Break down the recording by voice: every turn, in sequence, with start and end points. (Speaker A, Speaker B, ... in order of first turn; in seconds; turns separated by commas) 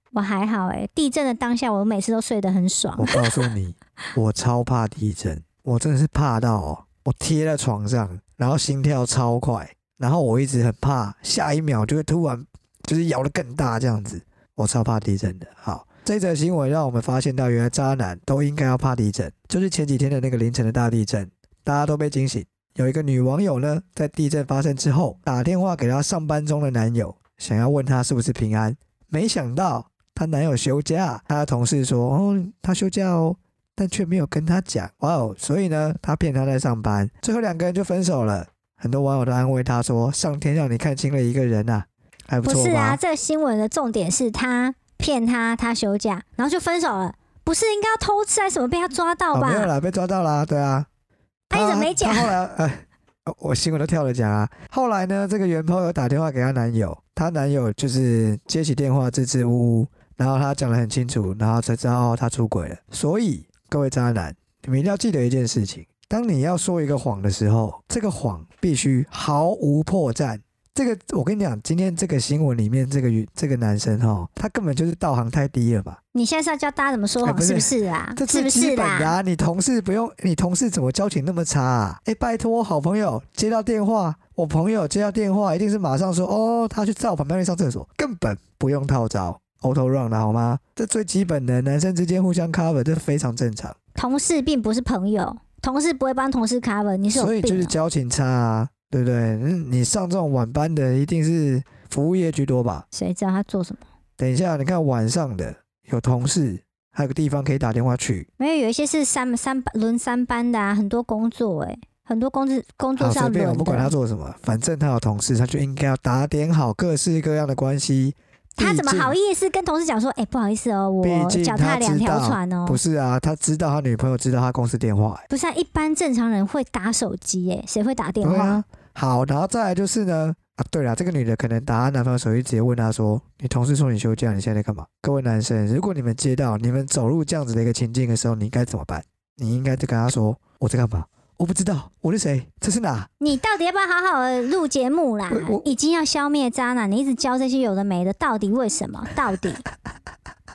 Speaker A: 0.1-3.4, Speaker B: 3.0-43.0, Speaker A: 42.4-49.7, Speaker B: 49.3-50.9, Speaker A: 51.5-52.4, Speaker B: 51.5-76.0, Speaker A: 76.1-79.2, Speaker B: 77.2-93.8, Speaker A: 94.0-97.8, Speaker B: 97.1-102.9, Speaker A: 102.9-103.8, Speaker B: 104.2-108.3, Speaker A: 108.4-113.9, Speaker B: 113.0-119.2, Speaker A: 118.6-122.8, Speaker B: 121.0-125.2, Speaker A: 125.3-128.6, Speaker B: 128.2-143.1, Speaker A: 143.2-149.6, Speaker B: 145.3-145.7